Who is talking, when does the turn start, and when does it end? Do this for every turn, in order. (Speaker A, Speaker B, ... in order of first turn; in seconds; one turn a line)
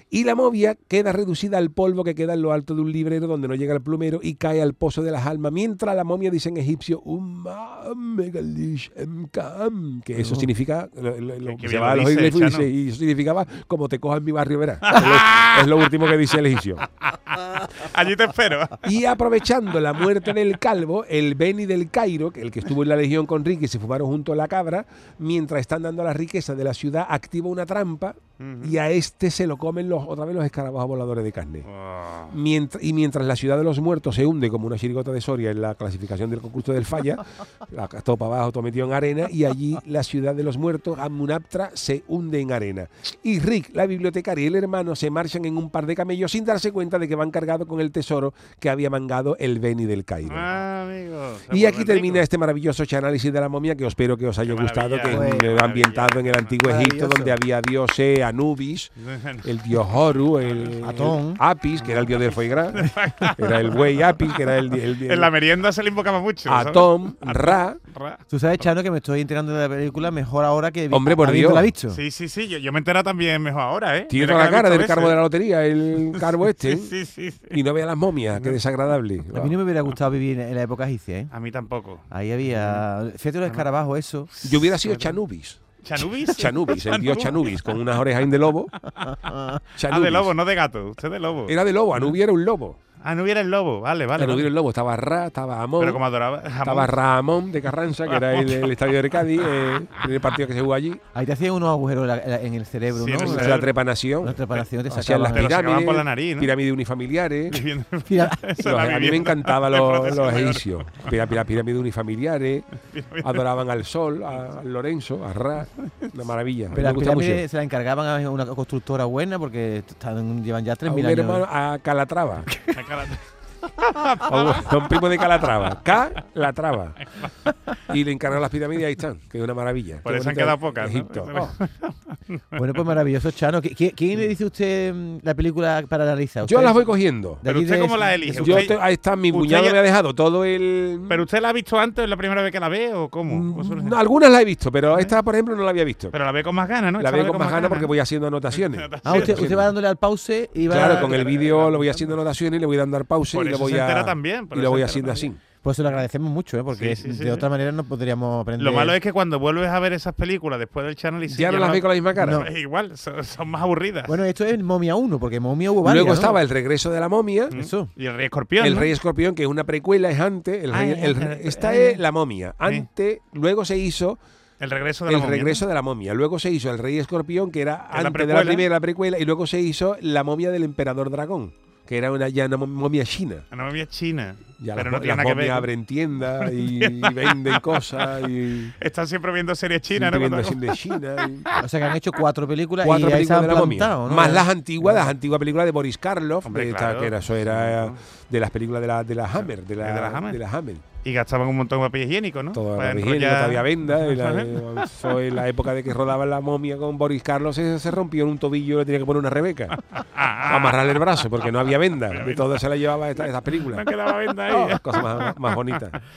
Speaker A: 0.1-16.9
Speaker B: 10.2-10.5
Speaker C: 11.4-12.7
Speaker C: 14.9-15.9
Speaker C: 17.1-18.8
Speaker A: 18.8-31.7
Speaker C: 28.4-28.8
Speaker C: 31.7-32.3
Speaker A: 32.3-50.5
Speaker C: 50.2-52.2
Speaker A: 51.5-65.3
Speaker C: 54.4-56.5
Speaker B: 55.1-55.5
Speaker B: 56.6-57.4
Speaker C: 59.0-59.5
Speaker C: 60.4-60.8
Speaker B: 60.8-61.4
Speaker C: 61.8-68.6
Speaker A: 66.5-67.8
Speaker B: 68.3-72.0
Speaker A: 70.9-71.7
Speaker C: 71.9-75.2
Speaker A: 74.1-76.9
Speaker C: 76.1-77.6
Speaker A: 77.5-79.5
Speaker C: 78.3-78.6
Speaker B: 79.3-81.3
Speaker C: 81.3-82.8
Speaker B: 82.1-84.3
Speaker C: 84.4-85.2
Speaker A: 84.4-85.6
Speaker C: 85.8-87.8
Speaker A: 86.3-88.7
Speaker C: 88.9-89.2
Speaker B: 89.2-89.6
Speaker A: 89.8-90.3
Speaker C: 89.8-92.1
Speaker A: 91.5-92.8
Speaker C: 93.0-94.5
Speaker A: 94.2-96.0
Speaker C: 95.8-97.0
Speaker A: 96.6-101.0
Speaker C: 98.0-98.7
Speaker B: 101.1-103.6
Speaker C: 102.9-103.7
Speaker A: 103.2-107.7
Speaker B: 104.2-105.5
Speaker C: 105.3-106.5
Speaker C: 107.5-111.1
Speaker B: 108.1-108.4
Speaker A: 108.6-112.7
Speaker C: 112.9-113.4
Speaker A: 113.2-117.4
Speaker B: 116.7-121.5
Speaker A: 120.8-122.5
Speaker C: 122.6-125.6
Speaker A: 124.2-127.1
Speaker A: 127.9-131.6
Speaker C: 130.0-132.6
Speaker B: 132.5-138.7
Speaker A: 136.4-137.4
Speaker C: 137.4-139.8
Speaker A: 138.4-141.2
Speaker C: 141.1-144.0
Speaker A: 143.3-146.2
Speaker C: 146.1-147.9
Speaker A: 147.0-149.7
Speaker C: 148.5-149.6
Speaker B: 149.0-151.4
Speaker C: 150.7-152.0
Speaker A: 150.7-155.4
Speaker C: 153.3-155.3
Speaker B: 155.6-159.0
Speaker C: 156.7-157.5
Speaker C: 158.6-164.2
Speaker A: 161.3-162.4
Speaker B: 162.2-162.5
Speaker B: 164.1-166.4
Speaker A: 165.8-167.5
Speaker B: 167.5-167.9
Speaker C: 167.5-168.9
Speaker A: 168.6-174.2
Speaker C: 170.7-172.0
Speaker C: 174.6-175.6
Speaker A: 175.1-183.4
Speaker C: 177.9-178.7
Speaker C: 183.5-188.1
Speaker A: 184.6-188.7
Speaker C: 188.8-191.6
Speaker A: 189.9-191.5
Speaker B: 191.6-195.1
Speaker A: 192.8-200.8
Speaker C: 196.4-198.0
Speaker C: 199.3-200.4
Speaker C: 201.0-205.2
Speaker A: 202.5-209.8
Speaker C: 209.9-211.5
Speaker A: 210.4-213.9
Speaker C: 212.1-212.6
Speaker C: 213.5-215.8
Speaker A: 214.5-216.0